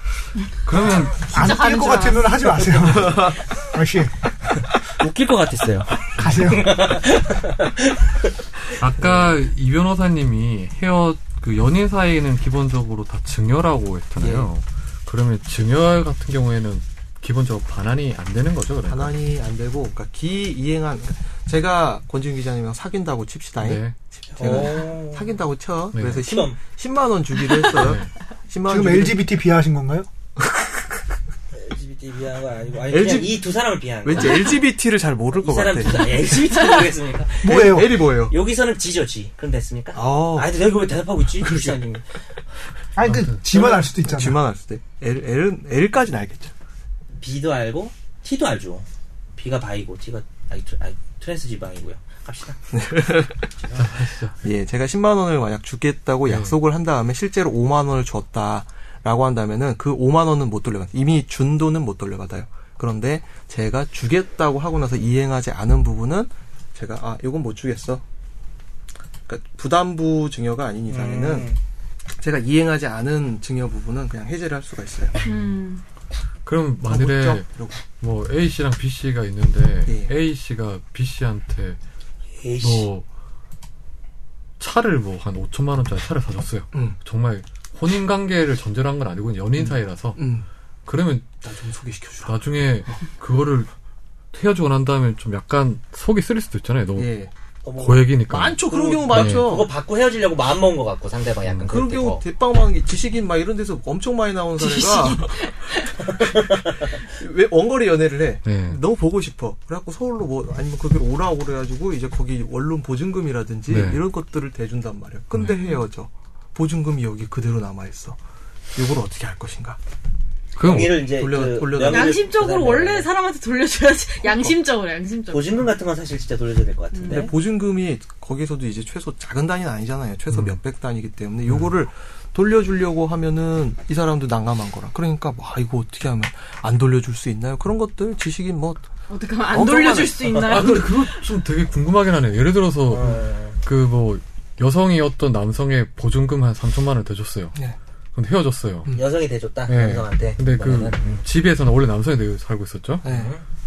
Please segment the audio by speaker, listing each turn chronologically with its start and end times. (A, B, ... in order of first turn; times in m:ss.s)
0:00.6-0:01.3 A
0:01.1-0:02.7 B
0:01.3-0:04.1 C
0:03.0-0:03.3 D
0:04.9-0:08.2 E
0:06.2-0:06.8 C
0:08.8-0:19.1 A
0:14.2-0:14.5 D
0:18.9-0:29.3 D
0:23.6-0:24.7 A
0:24.4-0:25.3 E
0:25.9-0:26.3 A
0:26.2-0:26.6 E
0:27.7-0:28.1 A
0:28.7-0:30.1 C
0:30.5-0:30.8 D
0:31.5-0:34.6 E
0:32.9-0:33.4 D
0:34.0-0:36.2 D
0:35.4-0:42.0 E
0:37.4-0:38.0 C
0:37.4-0:38.4 D
0:39.9-0:40.5 D
0:41.4-0:42.0 D
0:43.0-0:44.4 C
0:43.0-0:43.4 A
0:43.5-0:46.5 D
0:47.2-0:48.9 E
0:49.4-0:52.8 E
0:52.7-0:53.5 D
0:53.6-0:54.0 E
0:53.8-0:54.4 A
0:54.4-1:08.0 D
0:56.3-0:56.6 A
1:09.3-1:11.5 D
1:10.9-1:11.6 E
1:12.2-1:15.1 D
1:15.2-1:15.8 B
1:16.4-1:21.8 A
1:16.8-1:17.8 D
1:19.9-1:20.1 D
1:22.4-1:22.9 E
1:22.6-1:23.0 A
1:24.6-1:30.2 A
1:26.7-1:27.0 D
1:29.6-1:30.5 D
1:30.9-1:31.4 A
1:31.4-1:32.9 D
1:32.2-1:33.7 A
1:34.3-1:37.2 A
1:37.0-1:37.3 D
1:37.6-1:42.2 E
1:37.8-1:39.5 A
1:38.3-1:39.7 D
1:41.7-1:58.2 D
1:44.6-1:46.1 B
1:46.4-1:46.7 E
1:48.4-1:48.8 A
1:53.7-1:54.0 A
1:55.4-1:55.6 A
1:58.8-1:59.8 D
2:00.6-2:01.1 A
2:00.6-2:03.1 E
2:00.7-2:02.3 D
2:01.8-2:05.7 B
2:04.2-2:04.6 D
2:05.3-2:07.3 E
2:06.9-2:07.3 B
2:07.1-2:18.9 D
2:10.3-2:10.6 A
2:19.1-2:21.3 B
2:19.5-2:20.8 D
2:20.4-2:27.6 A
2:22.9-2:23.6 E
2:28.1-2:29.0 A
2:28.9-2:31.2 E
2:29.7-2:33.0 A
2:33.0-2:33.3 D
2:33.0-2:33.4 E